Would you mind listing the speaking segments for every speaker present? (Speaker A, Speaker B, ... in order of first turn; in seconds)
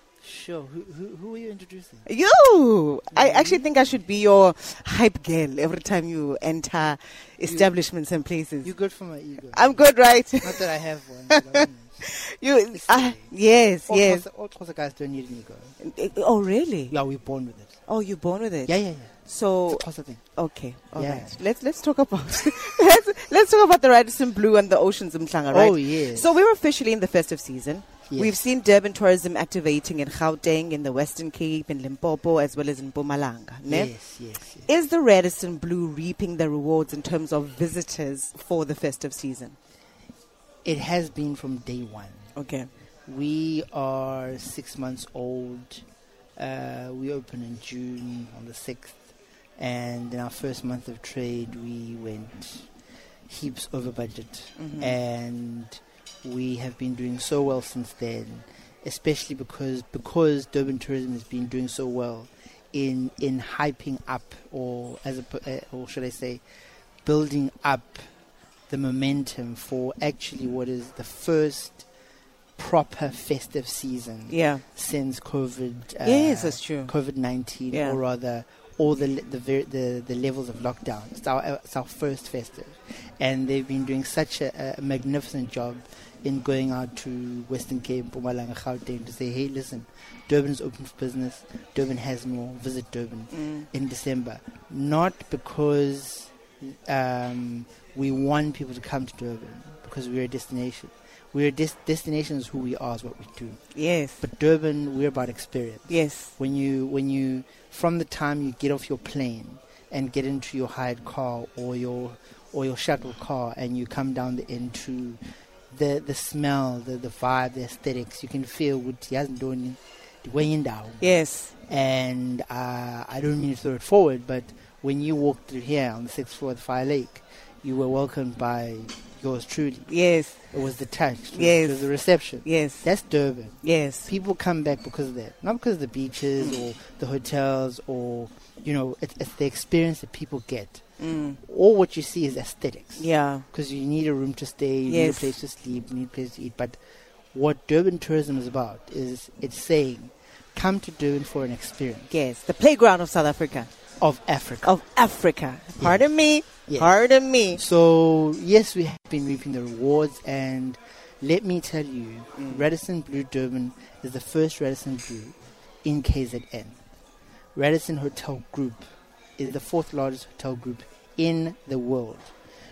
Speaker A: 0.2-2.1, 3.1-3.6, 8.6-9.8, 10.4-12.1, 12.7-13.3, 13.9-15.7, 16.9-17.7, 18.7-19.1, 19.7-20.2, 20.9-21.3, 25.5-26.3, 28.1-28.4, 33.7-34.7, 40.6-42.3, 43.1-45.9, 46.4-49.0, 49.6-52.7, 53.3-66.4, 67.0-68.0, 68.7-71.8, 72.6-103.6, 104.2-115.2, 115.7-121.1, 121.7-129.9, 130.5-140.8, 141.4-146.8, 147.3-152.1, 154.0-154.7, 155.8-156.1, 156.7-156.9, 157.5-166.8, 167.6-168.8, 169.4-172.3
Speaker B: 2.1-8.7, 9.5-10.7, 11.3-14.2, 15.8-16.9, 17.9-33.9, 34.7-39.6, 42.4-42.7, 54.6-55.0, 74.3-74.6, 76.0-76.9, 77.7-78.0, 93.3-93.7, 103.7-104.2, 105.9-106.3, 121.0-121.5, 129.9-130.4, 131.3-131.9, 132.4-132.8, 133.6-134.1, 141.0-141.4, 143.0-143.4, 144.9-145.3, 152.1-153.7, 154.6-157.6, 162.4-162.6